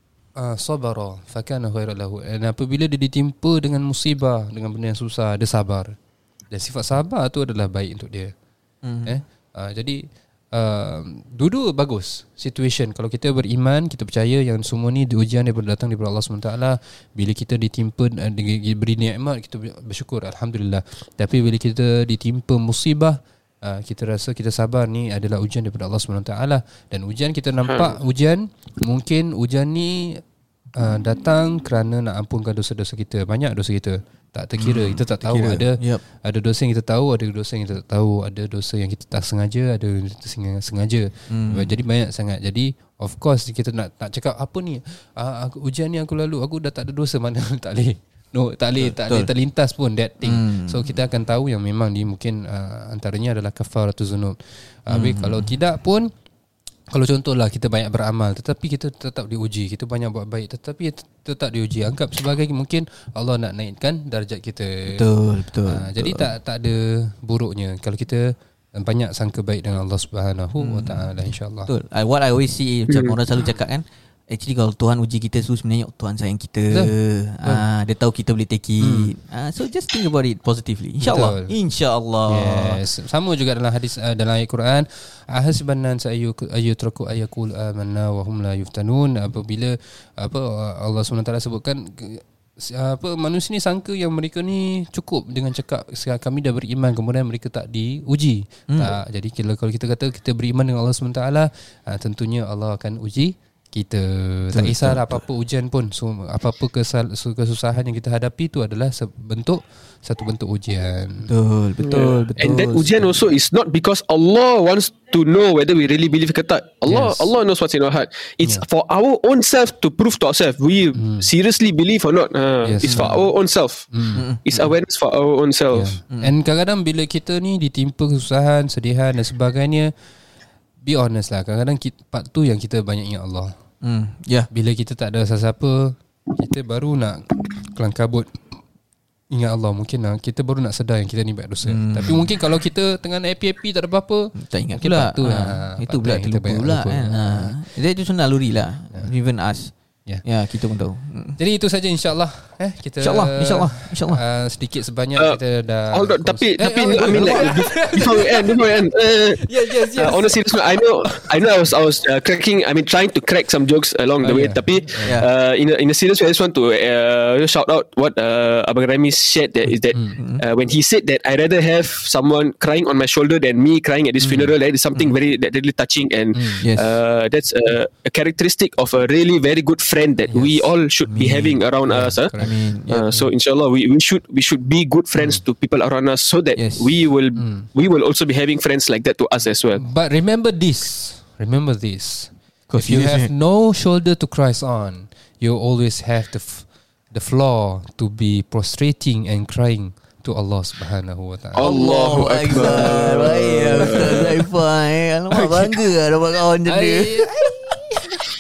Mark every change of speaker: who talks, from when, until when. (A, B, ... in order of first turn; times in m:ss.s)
0:00.4-0:05.9 A
0:06.5-0:08.3 A
0:08.8-0:09.2 B
0:09.0-0:10.0 A
0:10.5-0:30.2 A
0:27.7-0:28.0 C
0:30.7-0:56.1 A
0:34.6-0:36.0 B
0:41.3-0:41.8 B
0:48.8-0:49.3 B
0:50.2-0:51.0 B
0:54.9-0:55.5 B
0:56.9-1:05.0 A
1:04.9-1:06.3 B
1:05.6-1:11.7 A
1:10.6-1:11.1 B
1:11.6-1:22.8 B
1:12.9-1:13.2 C
1:16.7-1:17.6 A
1:18.8-1:19.1 A
1:21.0-1:21.5 A
1:22.3-1:51.3 A
1:38.7-1:39.0 B
1:44.5-1:45.2 B
1:51.3-1:53.1 B
1:51.8-2:03.9 C
1:56.8-1:57.3 A
2:01.0-2:01.3 A
2:02.6-2:03.3 A
2:02.8-2:03.2 B
2:03.9-2:04.2 A
2:04.1-2:04.7 B
2:04.4-2:06.0 C
2:05.7-2:09.9 A
2:10.8-2:13.5 A
2:13.8-2:14.5 B
2:14.5-2:18.4 A
2:19.3-2:27.6 A
2:21.6-2:22.4 B
2:24.3-2:31.4 B
2:31.4-2:38.9 A
2:33.0-2:34.2 B
2:35.9-3:09.9 C
2:37.0-2:37.6 B
2:39.4-2:40.4 A
2:44.2-2:45.1 A
2:45.0-2:45.3 B
2:50.2-2:50.4 B
2:56.3-2:56.6 A
2:56.6-2:56.9 B
3:01.0-3:01.6 B
3:01.9-3:02.5 A
3:02.4-3:03.3 B
3:06.6-3:07.0 B
3:07.4-3:07.6 A
3:09.8-3:21.7 A
3:12.7-3:13.3 B
3:21.6-3:24.3 C
3:21.6-3:27.1 B
3:22.4-3:24.3 A
3:25.3-3:25.8 A
3:26.7-3:28.2 A